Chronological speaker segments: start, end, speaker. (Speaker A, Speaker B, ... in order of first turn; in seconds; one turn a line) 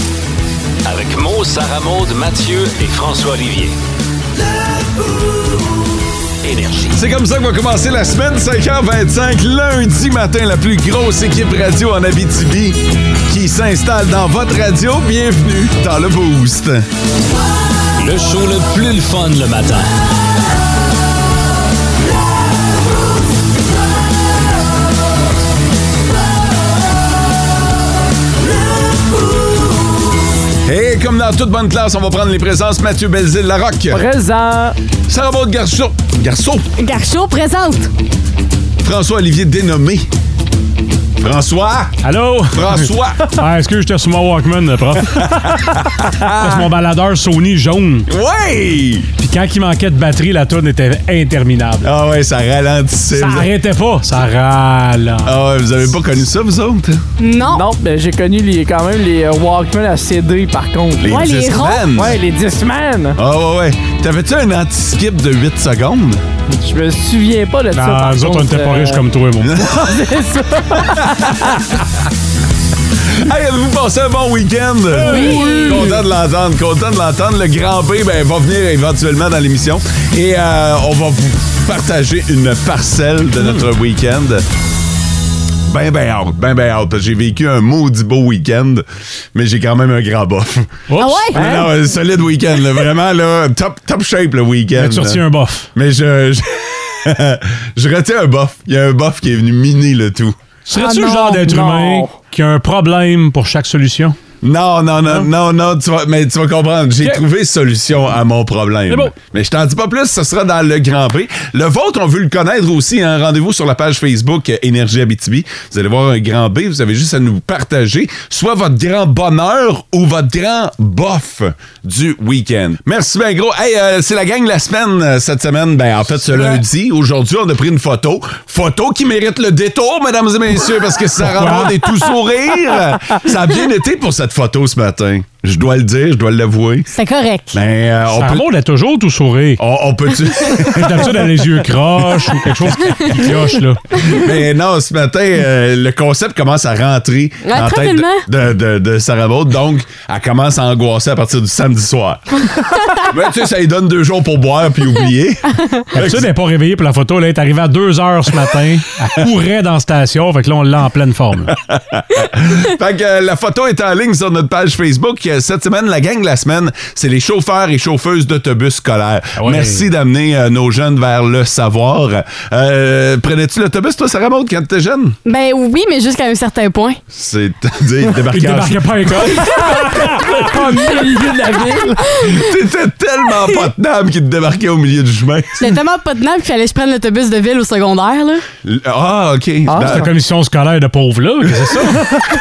Speaker A: 0.9-3.8
Speaker A: 6.4-7.0
Speaker B: 7.0-16.8
Speaker A: 18.0-19.9
Speaker B: 30.6-34.0
Speaker C: 33.9-34.8
Speaker B: 35.1-36.7
Speaker D: 36.8-37.9
Speaker B: 38.8-40.1
Speaker B: 41.2-42.0
Speaker E: 42.0-45.6
Speaker B: 42.5-43.4
Speaker B: 45.7-46.7
Speaker E: 46.4-48.1
Speaker B: 48.1-49.1
Speaker E: 49.2-51.9
Speaker B: 51.8-53.5
Speaker E: 53.1-55.4
Speaker B: 55.2-57.0
Speaker D: 57.2-57.6
Speaker C: 57.5-61.1
Speaker B: 61.0-62.2
Speaker D: 61.0-61.9
Speaker C: 61.9-63.2
Speaker B: 63.2-66.2
Speaker C: 66.5-69.0
Speaker E: 67.7-69.6
Speaker B: 69.5-69.9
Speaker C: 69.7-71.4
Speaker B: 73.1-84.5
Speaker C: 75.0-75.9
Speaker E: 75.1-75.7
Speaker D: 75.3-75.6
Speaker B: 85.7-100.4
Speaker E: 90.9-91.4
Speaker D: 91.0-91.4
Speaker C: 91.4-91.7
Speaker E: 94.8-95.7
Speaker E: 100.7-104.2
Speaker D: 100.8-101.5
Speaker C: 101.5-102.2
Speaker B: 104.4-136.9
Speaker E: 108.9-109.1
Speaker E: 131.2-131.8
Speaker D: 136.9-137.6
Speaker B: 137.5-138.5
Speaker E: 138.1-139.6
Speaker B: 139.6-141.2
Speaker E: 140.6-143.8
Speaker B: 144.0-156.3
Speaker D: 147.4-148.2
Speaker E: 155.9-161.5
Speaker B: 161.7-175.2
Speaker E: 169.4-169.9
Speaker D: 175.2-177.0
Speaker B: 177.1-179.3
Speaker E: 178.3-181.8
Speaker C: 179.8-181.9
Speaker B: 182.2-185.7
Speaker D: 185.6-188.4
Speaker B: 188.6-190.1
Speaker C: 189.7-190.1
Speaker E: 189.8-192.2
Speaker B: 191.6-191.9